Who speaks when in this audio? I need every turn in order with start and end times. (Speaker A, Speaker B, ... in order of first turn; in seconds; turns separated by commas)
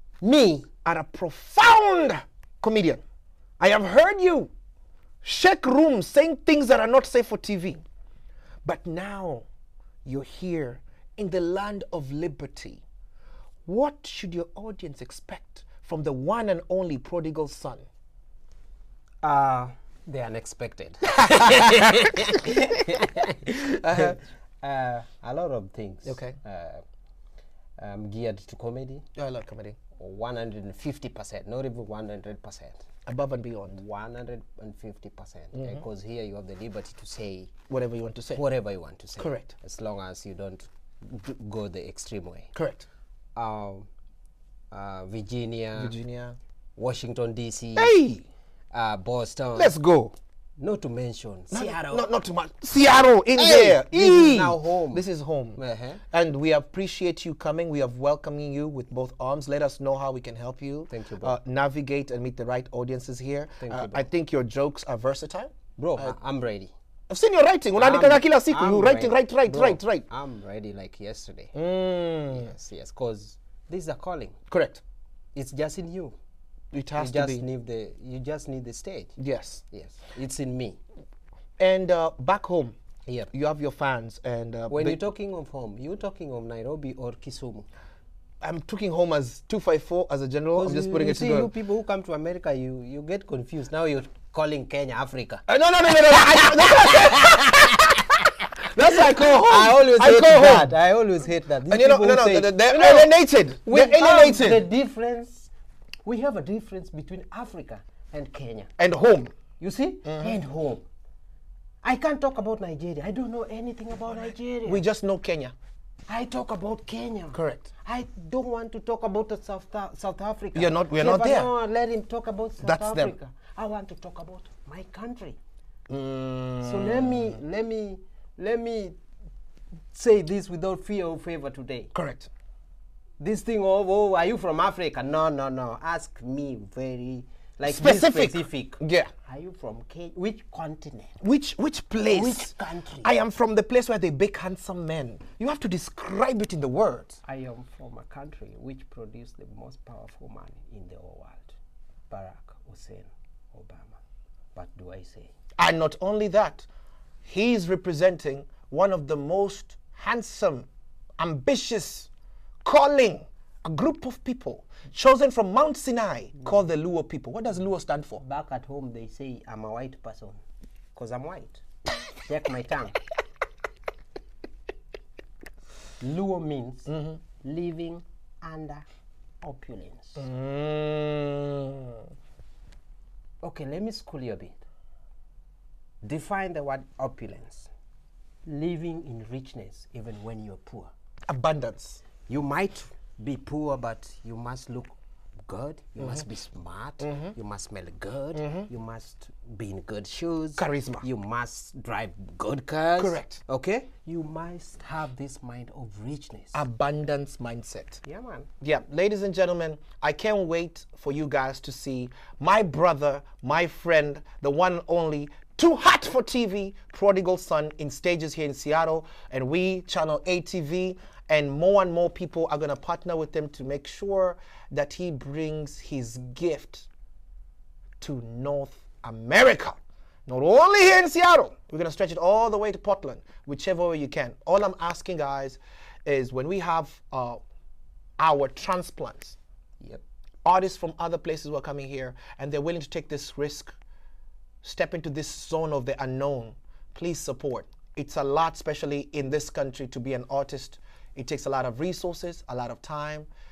Speaker A: 0.2-0.7, Speaker B: 0.8-3.0, Speaker B: 3.6-4.5, Speaker B: 5.2-7.8, Speaker B: 8.7-9.5, Speaker B: 10.1-12.8, Speaker B: 13.7-17.9, Speaker A: 19.2-26.8, Speaker B: 21.2-22.0, Speaker B: 23.7-24.2, Speaker B: 26.1-26.4, Speaker A: 27.8-29.1, Speaker B: 29.2-29.8, Speaker A: 30.0-32.8, Speaker B: 33.1-33.8, Speaker A: 33.7-37.5, Speaker B: 35.5-35.8, Speaker B: 37.7-38.4, Speaker A: 38.4-42.5, Speaker B: 39.2-39.5, Speaker B: 42.5-42.9, Speaker A: 43.4-43.9, Speaker A: 44.7-46.0, Speaker B: 45.8-46.4, Speaker A: 46.8-47.9, Speaker B: 47.8-48.3, Speaker A: 48.7-49.7, Speaker B: 49.5-50.1, Speaker A: 50.6-52.1, Speaker B: 51.5-55.6, Speaker A: 53.4-56.0, Speaker B: 56.1-66.2, Speaker A: 60.9-61.4, Speaker A: 63.6-64.1, Speaker A: 65.8-66.7, Speaker B: 67.1-70.1, Speaker A: 67.8-71.5, Speaker B: 71.5-72.5, Speaker A: 72.3-74.4, Speaker B: 74.5-74.8, Speaker A: 75.3-76.2, Speaker B: 76.7-77.5, Speaker A: 77.0-79.2, Speaker B: 79.2-79.6, Speaker A: 79.7-80.8, Speaker B: 81.6-82.8, Speaker B: 83.3-85.0, Speaker A: 84.7-87.7, Speaker B: 88.4-91.5, Speaker A: 90.6-95.4, Speaker B: 95.5-98.0, Speaker A: 96.1-98.1, Speaker B: 98.7-100.8, Speaker A: 98.7-105.5, Speaker B: 101.7-104.7, Speaker A: 106.0-108.7, Speaker B: 108.8-109.3, Speaker A: 109.6-110.8, Speaker B: 110.0-110.4, Speaker A: 111.8-114.8, Speaker B: 114.7-115.5, Speaker A: 116.1-125.4, Speaker B: 117.3-117.7, Speaker B: 120.5-121.5, Speaker B: 122.6-123.2, Speaker B: 125.9-127.4, Speaker A: 126.6-129.0, Speaker A: 129.9-131.9, Speaker B: 131.9-132.3, Speaker A: 133.2-141.2, Speaker B: 137.7-139.1, Speaker B: 141.2-142.5, Speaker A: 142.1-143.1, Speaker B: 143.0-147.2, Speaker A: 147.2-151.5, Speaker A: 152.1-154.0, Speaker A: 154.6-155.3, Speaker B: 155.6-156.7, Speaker B: 157.2-160.7, Speaker B: 161.2-162.1, Speaker B: 162.6-168.2, Speaker A: 168.2-170.4, Speaker A: 170.9-171.6, Speaker A: 172.3-173.0, Speaker A: 176.0-178.8, Speaker B: 176.9-177.2, Speaker A: 179.4-180.3, Speaker B: 180.2-182.0, Speaker A: 183.4-184.6, Speaker A: 186.0-187.7, Speaker A: 188.5-190.9, Speaker B: 191.3-192.0, Speaker A: 192.3-206.6, Speaker B: 197.0-197.3, Speaker B: 198.3-198.7, Speaker B: 200.6-201.1, Speaker B: 203.0-203.4, Speaker B: 206.5-208.0, Speaker A: 208.1-208.5, Speaker B: 208.6-226.9, Speaker B: 228.0-237.4, Speaker B: 238.2-239.4, Speaker B: 240.4-243.7, Speaker B: 244.6-253.3